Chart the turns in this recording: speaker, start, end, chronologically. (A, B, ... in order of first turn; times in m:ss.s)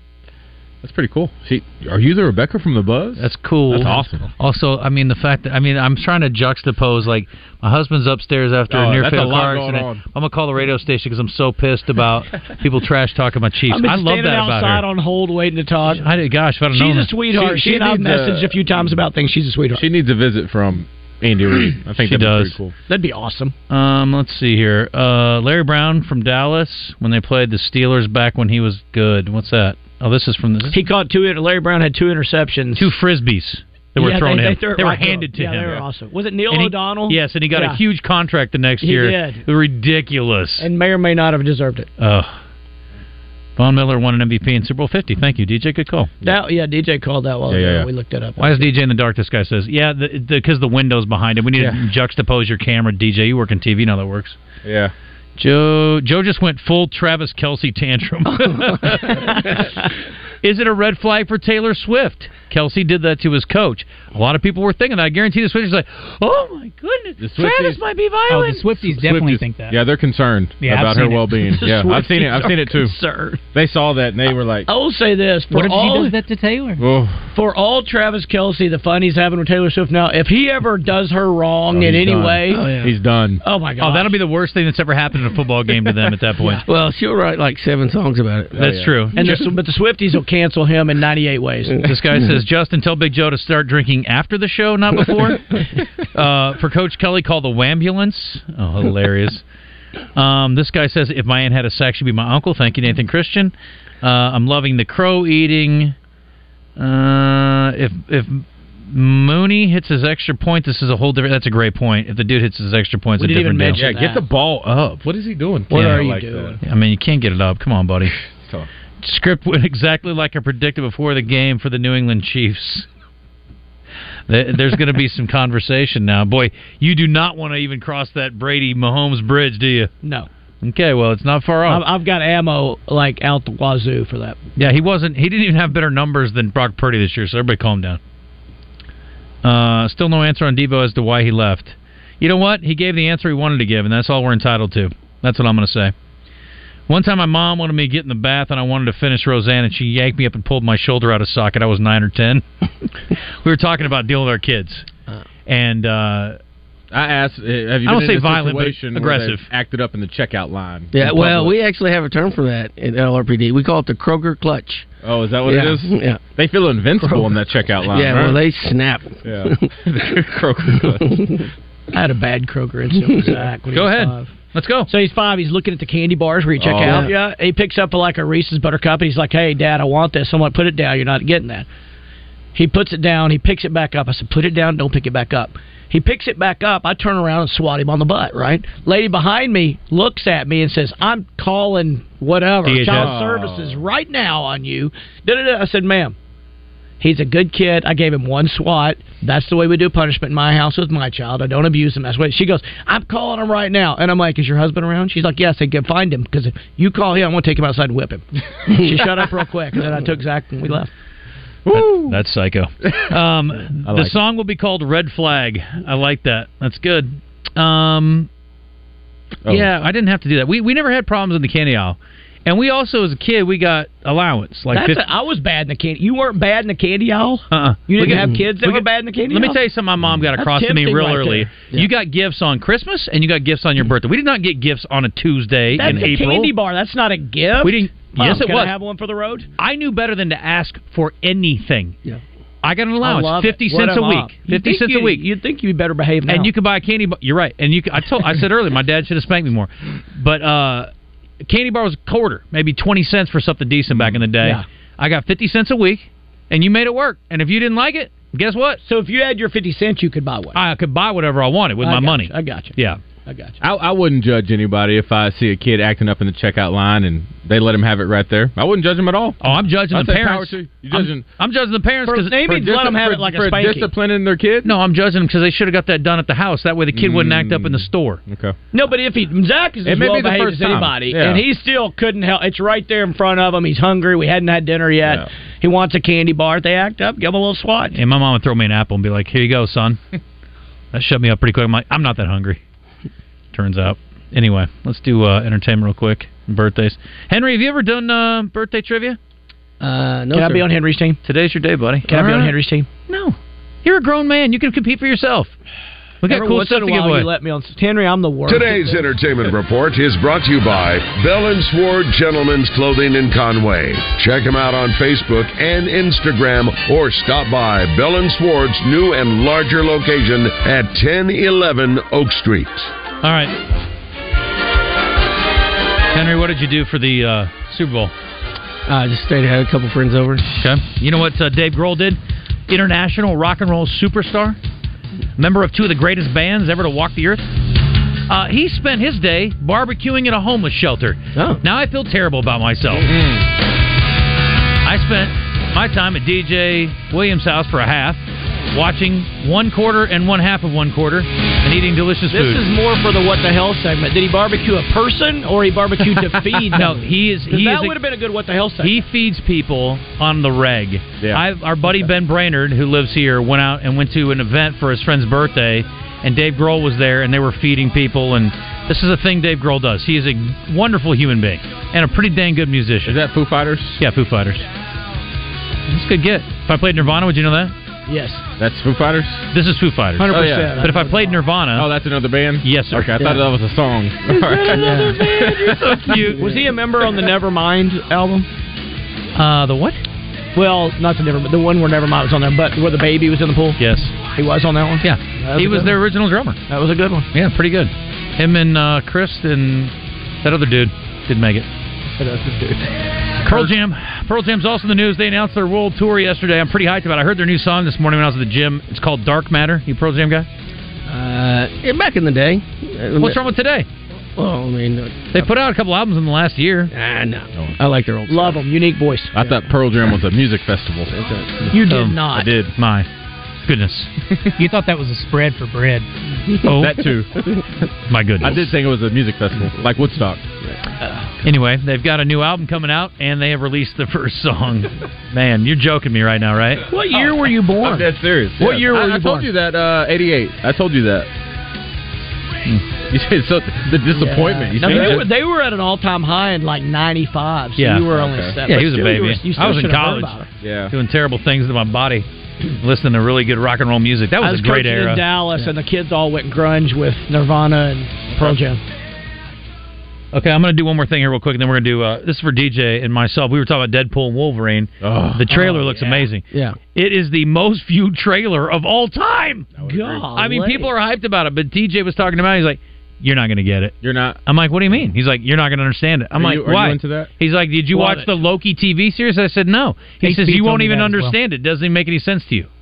0:00.8-0:04.3 A
0:03.2-0:14.8 B
0:08.7-0:10.0 A
0:13.7-0:16.0 C
0:15.9-0:17.1 B
0:16.7-0:19.8 C
0:17.3-0:19.0 A
0:19.7-0:22.7 A
0:22.0-0:22.6 B
0:22.9-0:23.5 C
0:23.7-0:30.8 B
0:30.7-0:32.9 C
0:32.8-0:35.8 B
0:34.0-0:37.8 C
0:36.5-0:40.7 B
0:38.8-0:39.4 C
0:40.6-0:41.9 C
0:42.0-0:42.4 B
0:43.6-0:46.1 B
0:46.2-0:48.7 C
0:47.5-0:47.9 A
0:48.4-0:54.4 B
0:51.6-0:51.8 A
0:54.6-0:54.9 A
0:55.4-0:59.7 B
1:00.4-1:08.7 B
1:07.2-1:07.8 A
1:08.3-1:09.8 D
1:08.8-1:13.0 A
1:10.6-1:11.4 D
1:11.5-1:13.4 C
1:13.5-1:14.7 A
1:14.7-1:16.2 C
1:15.5-1:16.8 D
1:16.8-1:17.3 A
1:17.3-1:22.7 C
1:21.7-1:23.4 A
1:22.5-1:23.0 E
1:23.4-1:24.1 C
1:23.8-1:26.6 B
1:26.7-1:28.6 E
1:28.5-1:29.1 A
1:28.6-1:29.3 B
1:29.2-1:31.8 C
1:31.8-1:35.5 B
1:36.1-1:39.4 B
1:40.2-1:46.0 B
1:46.8-1:53.8 B
1:53.2-1:54.2 C
1:53.8-1:56.6 A
1:55.7-1:56.6 C
1:55.7-1:56.0 B
1:56.6-1:58.1 B
1:58.3-1:58.7 A
1:59.0-2:02.9 B
2:04.3-2:09.9 B
2:10.0-2:10.3 C
2:10.6-2:11.8 B
2:11.7-2:14.4 C
2:14.6-2:18.0 B
2:19.4-2:25.9 B
2:26.9-2:32.4 B
2:33.4-2:34.9 B
2:35.5-2:36.4 B
2:36.9-2:41.6 A
2:37.9-2:39.5 B
2:40.9-2:44.9 E
2:45.0-2:48.4 A
2:45.4-2:46.2 E
2:47.0-2:47.4 E
2:47.9-2:49.7 E
2:49.2-2:51.2 A
2:50.8-2:51.4 E
2:51.9-2:54.3 C
2:53.7-2:54.9 B
2:54.9-3:01.7 C
2:56.6-2:57.1 A
2:56.8-2:57.1 E
3:02.6-3:16.2 C
3:12.6-3:13.2 B
3:12.9-3:13.8 A
3:17.0-3:30.9 C
3:31.7-3:32.2 A
3:31.7-3:38.3 B
3:33.8-3:34.2 A
3:39.4-3:39.7 A
3:39.5-3:45.0 B
3:44.7-3:49.6 C
3:47.5-3:56.5 B
3:48.0-3:48.4 E
3:50.4-3:51.5 C
3:55.8-3:59.5 C
3:57.6-3:58.7 B
3:59.6-4:02.0 B
4:02.6-4:05.2 B
4:03.0-4:06.5 C
4:06.3-4:10.9 B
4:11.4-4:18.8 B
4:13.9-4:14.2 A
4:18.8-4:20.6 C
4:20.5-4:23.0 B
4:21.8-4:23.6 C
4:23.6-4:31.3 A
4:29.4-4:32.5 B
4:32.1-4:33.9 C
4:32.5-4:34.7 A
4:34.6-4:38.2 B
4:36.9-4:38.6 A
4:38.7-4:48.0 C
4:39.8-4:41.4 A
4:47.9-4:50.0 B
4:50.9-4:52.6 B
4:53.5-4:59.2 B
4:59.8-5:00.7 E
5:00.3-5:01.2 C
5:01.2-5:02.5 B
5:02.1-5:02.9 C
5:03.1-5:05.6 B
5:06.2-5:07.3 B
5:06.3-5:09.1 C
5:08.5-5:22.9 F
5:23.2-5:23.6 B
5:26.1-5:28.1 B
5:28.9-5:30.4 E
5:30.6-5:34.6 B
5:35.4-5:37.5 B
5:38.3-5:43.1 B
5:41.4-5:41.6 E
5:43.0-5:43.5 A
5:44.8-5:52.6 B
5:52.3-5:59.0 C
5:56.4-5:56.7 A
5:56.7-5:58.0 B
5:58.8-6:13.2 B
6:13.0-6:14.0 A
6:14.0-6:14.7 B
6:15.9-6:17.7 B
6:18.1-6:18.4 C
6:18.6-6:19.5 A
6:19.5-6:21.9 B
6:20.2-6:21.4 C
6:20.3-6:20.8 A
6:21.7-6:26.2 A
6:22.6-6:23.2 B
6:23.2-6:23.4 E
6:24.3-6:28.5 C
6:24.7-6:25.2 E
6:25.6-6:26.4 B
6:29.4-6:30.0 B
6:30.6-6:36.0 C
6:33.8-6:34.2 B
6:35.0-6:36.6 B
6:36.7-6:37.3 C
6:37.3-6:41.7 B
6:42.2-6:42.9 C
6:43.4-6:50.5 B
6:51.1-6:53.4 E
6:53.2-6:53.9 B
6:54.4-6:55.5 E
6:55.3-6:56.9 B
6:56.9-6:58.6 E
6:58.3-6:59.3 C
6:59.3-7:01.1 A
7:01.1-7:01.7 E
7:01.7-7:02.5 C
7:01.8-7:03.1 B
7:02.3-7:02.7 A
7:03.7-7:04.1 B
7:04.6-7:06.1 D
7:06.6-7:07.0 B
7:06.7-7:07.4 A
7:08.1-7:08.7 B
7:08.4-7:10.4 A
7:11.4-7:16.9 B
7:16.9-7:19.5 C
7:17.1-7:21.3 A
7:23.1-7:25.3 A
7:24.1-7:30.5 C
7:24.9-7:25.2 B
7:27.8-7:28.1 B
7:28.1-7:28.6 A
7:28.6-7:30.4 B
7:30.6-7:30.9 A
7:30.9-7:32.3 B
7:32.8-7:35.2 B
7:34.4-7:38.8 C
7:38.3-7:38.6 A
7:40.3-7:49.7 B
7:45.0-7:45.6 A
7:45.5-7:46.2 C
7:46.5-7:46.8 E
7:49.8-7:50.3 A
7:49.8-7:50.9 C
7:50.4-8:02.7 B
7:54.0-7:54.4 A
7:56.4-7:57.3 A
7:57.9-7:58.4 C
8:00.2-8:01.4 D